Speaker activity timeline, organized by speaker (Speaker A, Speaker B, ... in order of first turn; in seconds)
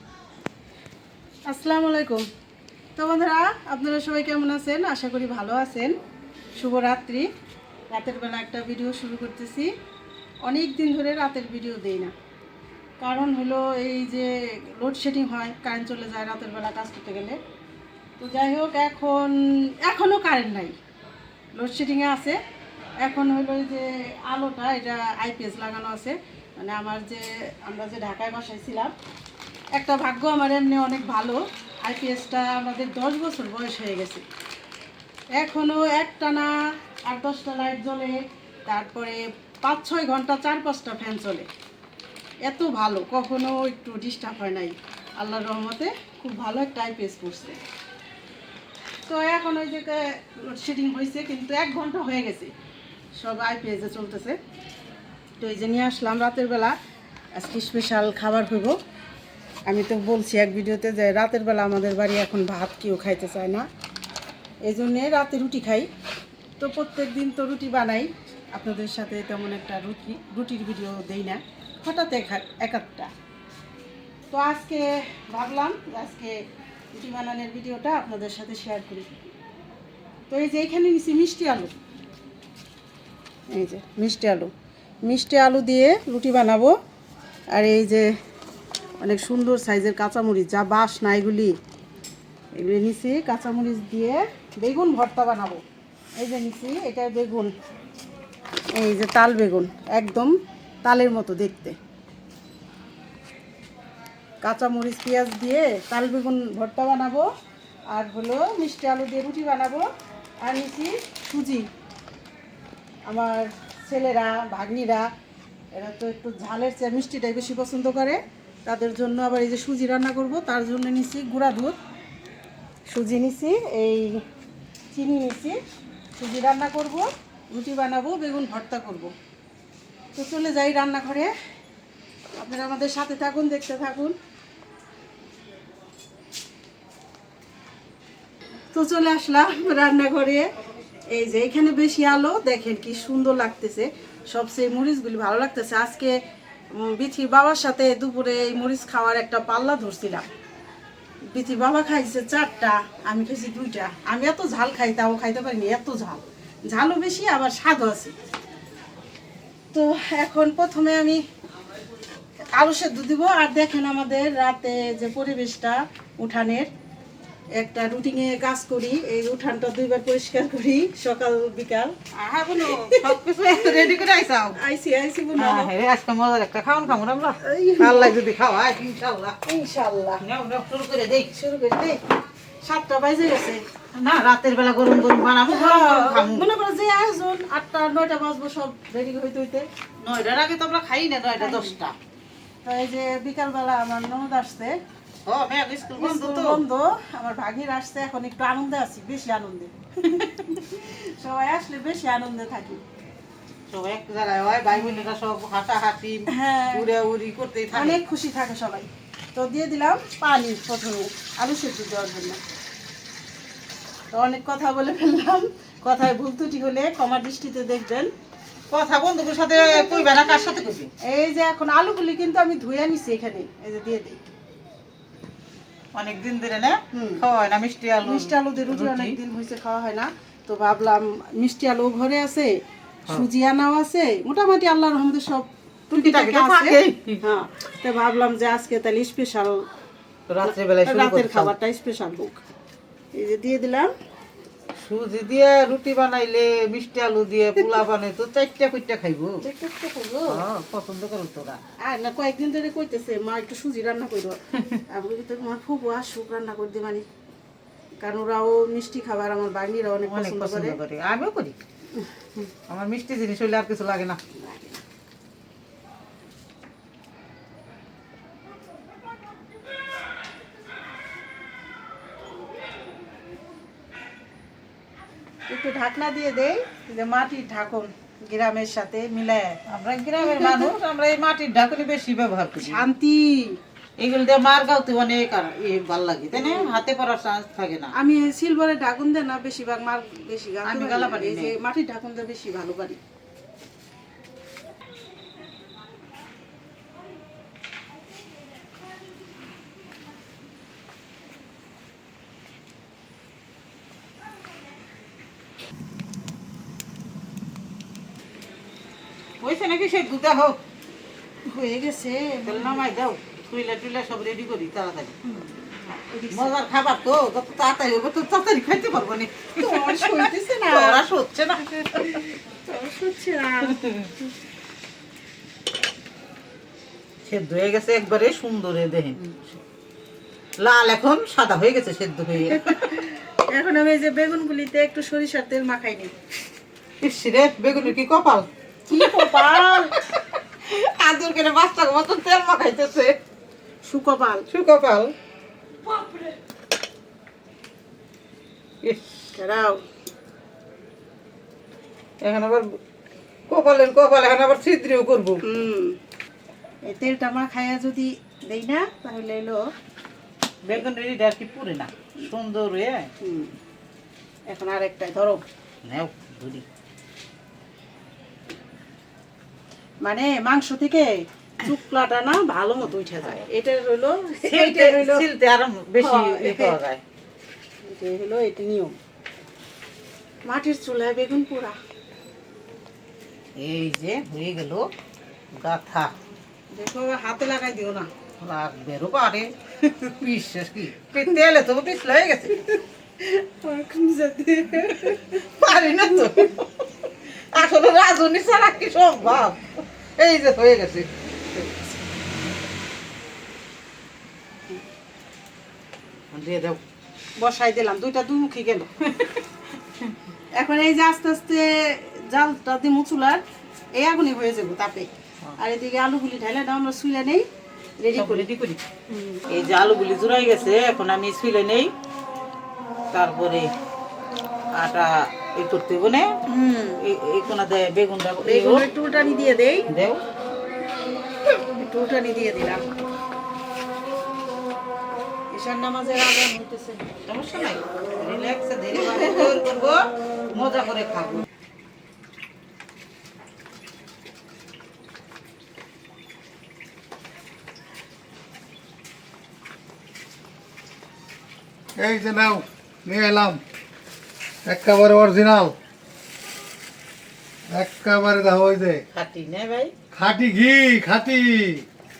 Speaker A: 1.5-2.3, 3.0-6.0, 6.6-7.3, 7.9-9.7, 10.4-12.1, 13.0-17.4, 18.2-20.8, 21.6-22.4, 23.0-28.9, 29.7-34.2, 35.4-41.5, 42.4-47.6, 49.1-52.5, 53.2-54.4, 55.4-56.7, 57.3-58.8, 59.7-63.7, 64.6-65.9, 66.6-73.1, 74.3-79.1, 80.3-81.7, 83.5-84.5, 85.0-86.8, 87.5-88.1, 89.0-91.6, 92.5-95.6, 96.2-97.5, 98.7-101.8, 104.4-107.3, 107.9-109.9, 110.4-111.7, 113.1-115.1, 115.7-121.8, 122.9-124.2, 124.9-125.6, 126.2-129.1, 130.1-131.3, 132.3-134.2, 138.7-140.5, 141.1-146.2, 146.7-150.3, 151.3-158.1, 159.7-161.2, 162.6-166.7, 167.6-173.9, 174.6-175.7, 177.4-178.2, 179.4-180.2, 181.4-182.0, 182.6-183.6, 185.5-189.7, 191.4-191.8, 192.6-194.8, 195.9-202.8, 206.3-206.9, 207.7-212.4, 214.1-218.1, 219.6-220.3, 221.0-224.2, 226.9-227.2, 228.0-232.6, 233.1-239.6, 240.4-242.4, 243.1-243.9, 249.4-250.4, 251.8-257.0, 258.0-260.8, 261.9-262.5, 264.4-264.8, 275.5-279.6, 280.2-280.7, 282.6-283.6, 286.3-286.8, 287.9-293.0, 311.5-312.9, 315.2-316.5, 319.6-321.0, 322.0-323.8, 332.6-336.1, 338.9-339.9, 343.8-344.4, 345.9-346.3, 349.3-349.8, 355.4-356.0, 356.9-359.6, 363.2-363.5, 364.5-365.4, 370.0-375.2, 376.0-376.8, 377.8-378.9, 380.5-381.8, 386.7-388.1, 393.2-395.4, 407.4-409.4, 410.6-417.4, 418.0-418.4, 419.1-419.4, 426.5-427.0, 428.4-429.9, 431.7-432.8, 435.5-437.1, 438.9-439.6
Speaker B: 172.6-174.6, 175.4-179.4, 180.2-181.4, 183.9-186.5, 190.0-191.9, 195.2-196.6, 203.7-208.0, 218.7-220.9, 225.9-229.2, 235.9-237.2, 240.3-241.5, 244.8-249.4, 250.3-251.6, 260.1-261.6, 262.7-264.2, 279.7-282.8, 284.0-287.9, 290.6-291.5, 309.4-310.6, 312.5-315.1, 316.3-322.2, 323.8-324.1, 327.2-329.6, 330.6-333.0, 337.0-343.1, 344.5-345.1, 348.8-349.3, 352.2-352.7, 353.5-355.4, 360.6-363.1, 365.8-366.6, 374.4-377.0, 383.6-384.9, 385.5-386.1, 388.4-392.8, 395.0-396.6, 397.5-401.1, 406.3-406.8, 418.1-418.8, 419.5-421.9, 423.1-423.7, 424.8-426.4, 427.0-428.9, 429.9-430.2, 437.3-441.4, 459.1-459.9
Speaker C: 451.9-453.6, 454.6-455.7, 457.7-459.0, 460.1-461.8